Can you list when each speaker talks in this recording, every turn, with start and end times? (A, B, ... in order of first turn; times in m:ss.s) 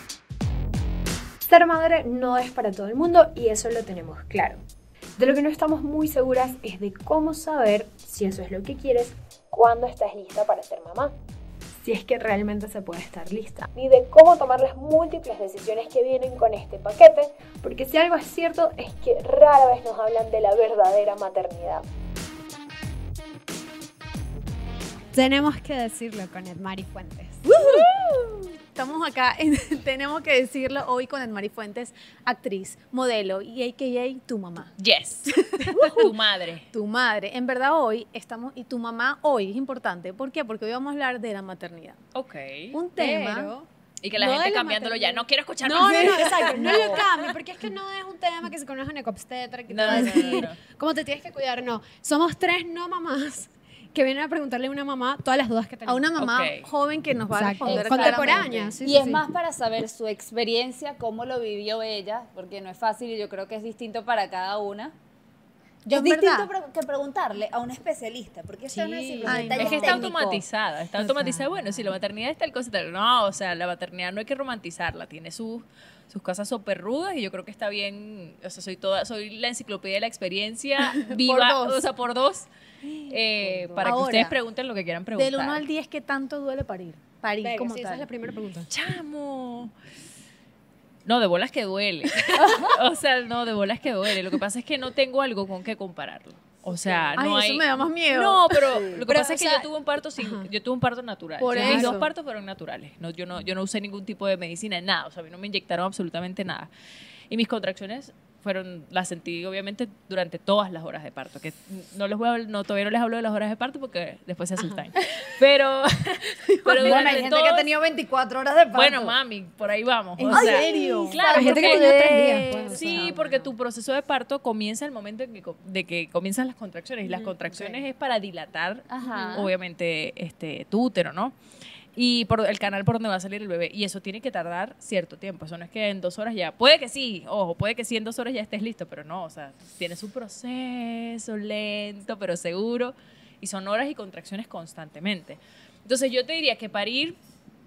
0:01.4-0:04.6 A
0:05.2-0:11.1 A
0:11.8-0:21.8 A
0:25.1-0:27.5 B
0:27.5-0:34.7 C
0:34.8-0:36.7 D
0:35.5-0:36.1 C
0:35.8-0:36.1 B
0:36.7-0:42.0 C
0:42.1-0:42.8 D
0:42.7-0:43.5 C
0:43.0-0:56.1 B
0:44.0-0:47.2 D
0:45.8-0:47.0 C
0:49.7-0:50.6 D
0:49.9-0:50.5 C
0:55.9-0:58.7 C
0:56.2-0:56.7 D
0:57.3-0:59.2 B
0:57.6-1:05.0 E
1:05.8-1:06.5 C
1:05.9-1:10.4 E
1:08.7-1:09.8 B
1:09.2-1:10.1 C
1:09.5-1:22.5 D
1:11.0-1:11.5 B
1:21.0-1:21.9 C
1:23.1-1:25.6 D
1:23.3-1:24.0 E
1:23.8-1:24.3 C
1:25.2-1:28.1 C
1:27.4-1:28.7 B
1:28.7-1:29.7 D
1:31.0-1:46.7 D
1:32.4-1:32.8 E
1:36.7-1:39.7 C
1:38.7-1:39.0 E
1:40.2-1:40.5 B
1:41.4-1:42.1 C
1:41.5-1:41.9 B
1:47.3-1:57.7 D
1:54.6-1:54.8 B
1:56.8-1:59.2 E
1:56.9-1:57.2 C
1:58.7-2:11.4 D
2:00.2-2:01.6 C
2:00.3-2:03.5 E
2:01.3-2:03.2 B
2:02.1-2:03.2 C
2:07.1-2:07.8 C
2:08.9-2:09.5 E
2:12.0-2:27.2 D